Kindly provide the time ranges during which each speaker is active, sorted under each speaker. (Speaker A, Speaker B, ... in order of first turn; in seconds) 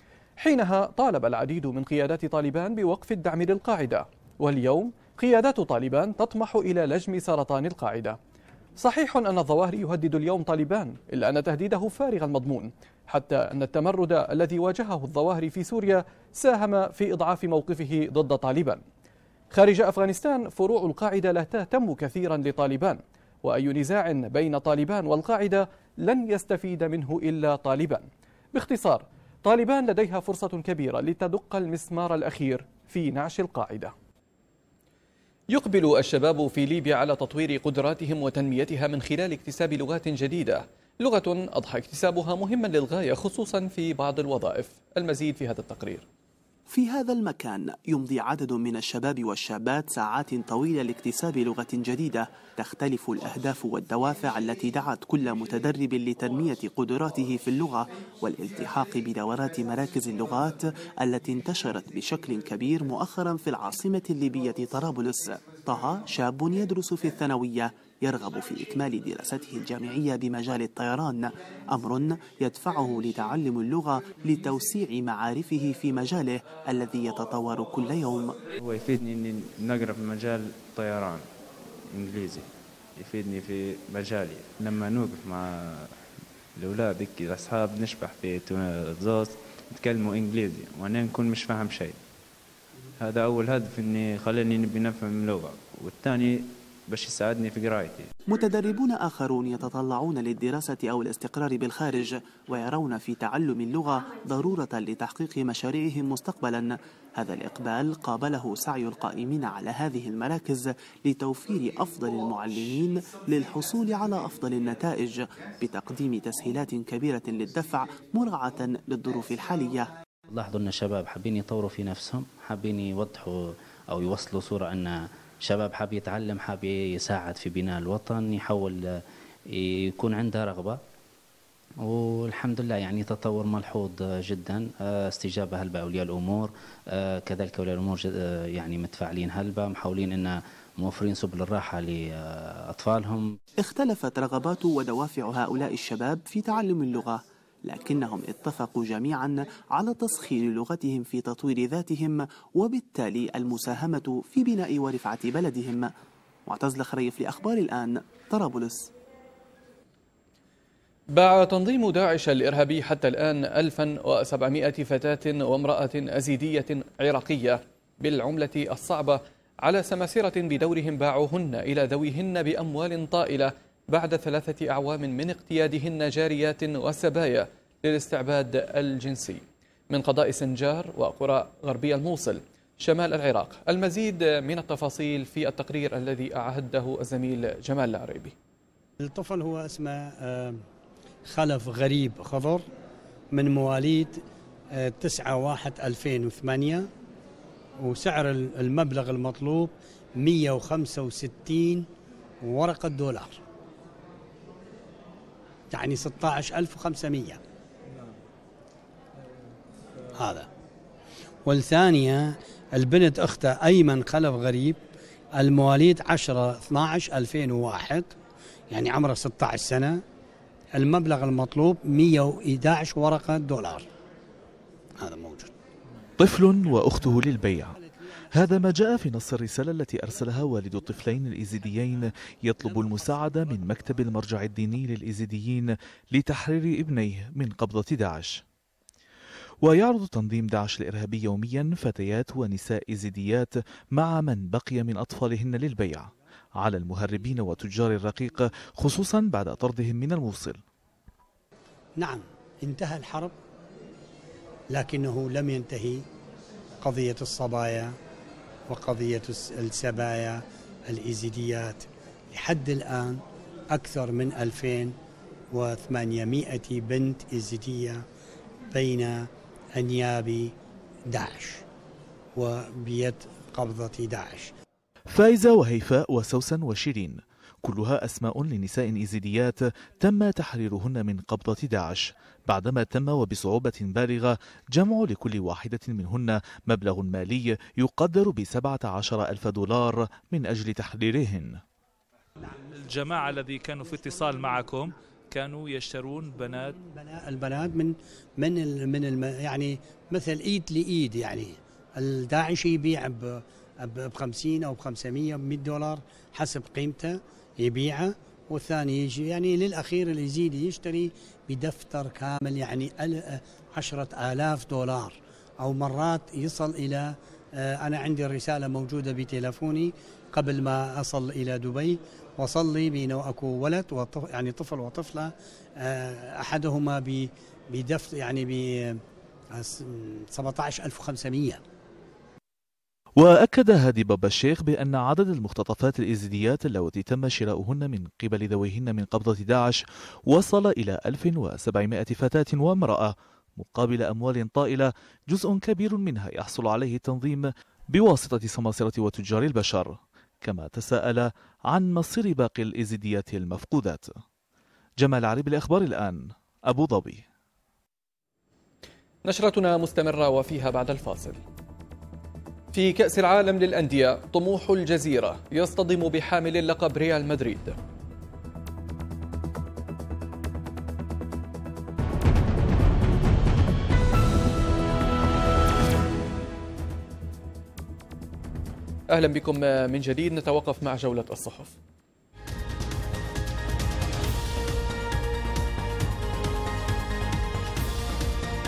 Speaker A: 0.4-8.2, 8.8-18.8, 19.5-33.9, 35.5-46.0, 161.1-188.3, 359.2-361.4, 362.7-367.8, 379.1-381.8
Speaker B: 46.7-78.4, 98.3-119.9, 143.6-155.9, 156.5-158.9
Speaker C: 78.6-81.3, 81.8-85.9, 86.6-92.0, 93.0-98.1
Speaker D: 120.3-130.8, 131.8-143.3
Speaker E: 189.0-190.6, 191.3-192.6, 193.3-194.2, 194.7-196.9, 197.8-201.9, 202.4-203.4, 205.7-207.4, 210.1-210.5, 211.5-214.8, 215.4-218.2, 218.7-220.0, 220.8-223.9, 225.0-225.5, 252.0-253.3, 254.7-256.0, 256.8-257.9, 258.7-265.0, 265.5-268.1, 268.7-270.6, 271.1-271.6, 272.4-274.5, 296.8-329.0, 329.5-331.6
Speaker F: 226.2-227.8, 228.3-238.4, 239.6-250.6, 275.1-291.6, 333.2-354.1, 355.0-357.2
Speaker G: 292.8-296.8